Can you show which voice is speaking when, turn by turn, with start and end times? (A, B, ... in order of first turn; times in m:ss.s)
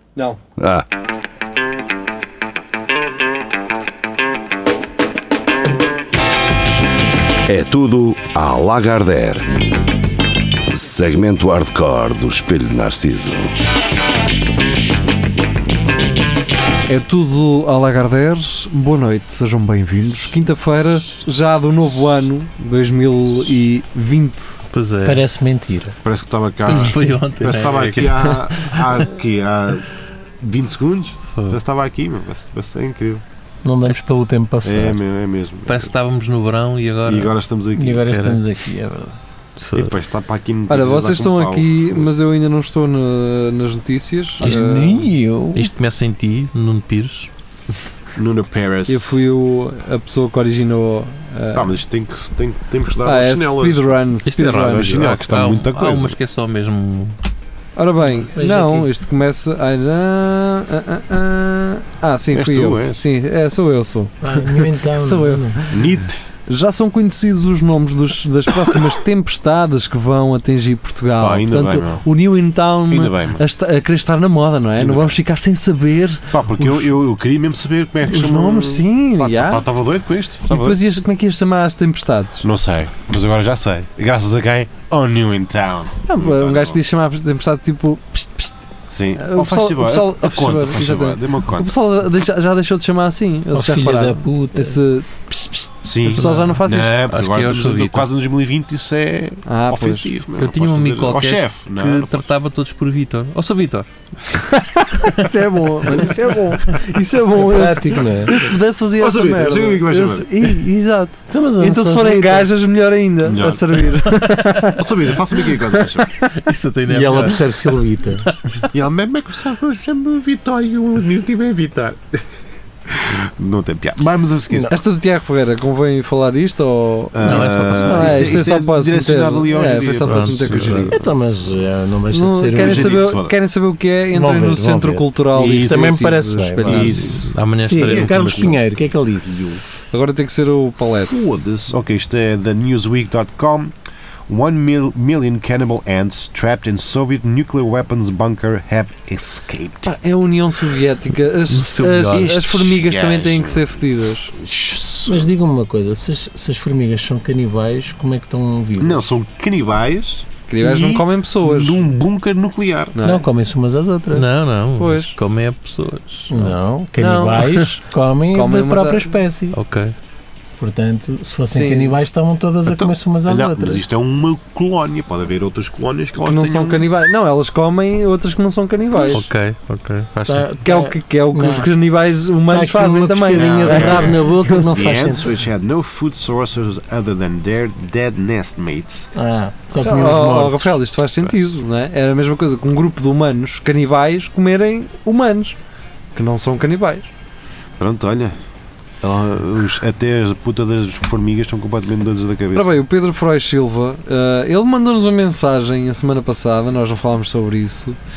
0:00.6-0:00.8 A
0:07.5-0:09.6 A
0:10.7-0:13.5 A
0:16.9-0:24.5 B
0:24.7-0:25.2 C
0:25.0-0:26.0 D
0:26.0-0:33.2 E
0:26.6-0:29.1 C
0:33.6-0:35.0 D
0:34.6-0:35.9 E
0:35.6-0:37.3 C
0:37.0-0:38.0 E
0:37.7-0:39.2 D
0:38.0-0:38.4 C
0:39.6-0:39.9 C
0:39.7-0:42.1 E
0:40.7-0:45.1 B
0:44.4-0:45.7 D
0:45.5-0:47.3 C
0:48.2-0:49.2 E
0:48.9-0:51.8 B
0:51.5-0:53.9 E
0:53.0-0:55.1 B
0:54.2-0:57.2 C
0:54.6-0:56.2 E
0:57.8-1:05.9 B
0:58.3-0:58.9 D
1:02.3-1:03.0 E
1:04.2-1:05.6 D
1:05.7-1:06.2 E
1:06.5-1:16.9 B
1:11.2-1:12.0 E
1:12.9-1:13.4 E
1:14.8-1:15.2 E
1:16.3-1:20.8 E
1:18.0-1:19.6 B
1:20.5-1:22.4 B
1:22.4-1:26.8 E
1:26.1-1:28.5 B
1:28.9-1:31.7 E
1:29.1-1:37.0 B
1:33.5-1:34.8 D
1:35.8-1:42.2 E
1:36.1-1:36.5 C
1:37.1-1:38.1 C
1:39.4-1:40.1 B
1:40.4-1:43.9 C
1:44.3-1:56.3 B
1:44.9-1:45.3 C
1:47.4-1:48.5 D
1:49.0-1:50.6 E
1:51.3-1:52.5 D
1:53.2-1:53.6 E
1:54.8-1:56.1 E
1:56.2-1:58.7 C
1:56.9-1:58.3 D
1:58.7-2:02.2 E
2:02.9-2:04.8 E
2:04.7-2:11.0 B
2:07.1-2:11.1 E
2:07.2-2:08.4 C
2:07.7-2:08.4 D
2:10.0-2:11.0 C
2:10.9-2:13.1 D
2:12.1-2:17.0 B
2:12.5-2:13.3 E
2:14.1-2:17.0 D
2:15.3-2:19.6 E
2:16.6-2:18.5 C
2:17.6-2:19.6 D
2:19.9-2:21.4 B
2:21.0-2:23.7 E
2:24.3-2:29.9 E
2:29.8-2:34.3 B
2:31.5-2:32.3 C
2:32.1-2:33.8 E
2:34.3-2:35.3 E
2:35.0-2:39.0 D
2:38.8-2:43.0 E
2:40.5-2:41.8 B
2:42.9-2:43.2 B
2:43.0-2:44.3 D
2:44.1-2:46.5 C
2:44.8-2:45.1 B
2:46.3-2:49.6 D
2:47.0-2:47.6 B
2:48.3-2:49.1 B
2:49.5-2:49.9 C
2:50.6-2:53.8 D
2:51.4-2:52.0 B
2:52.7-2:56.9 E
2:56.2-2:59.2 B
2:59.1-3:00.5 C
3:00.3-3:01.7 D
3:00.6-3:04.6 B
3:02.5-3:05.3 D
3:03.3-3:09.1 E
3:09.1-3:10.7 D
3:09.7-3:15.6 B
3:11.1-3:11.6 E
3:16.1-3:17.1 B
3:17.8-3:18.4 E
3:19.0-3:22.8 E
3:22.5-3:28.0 B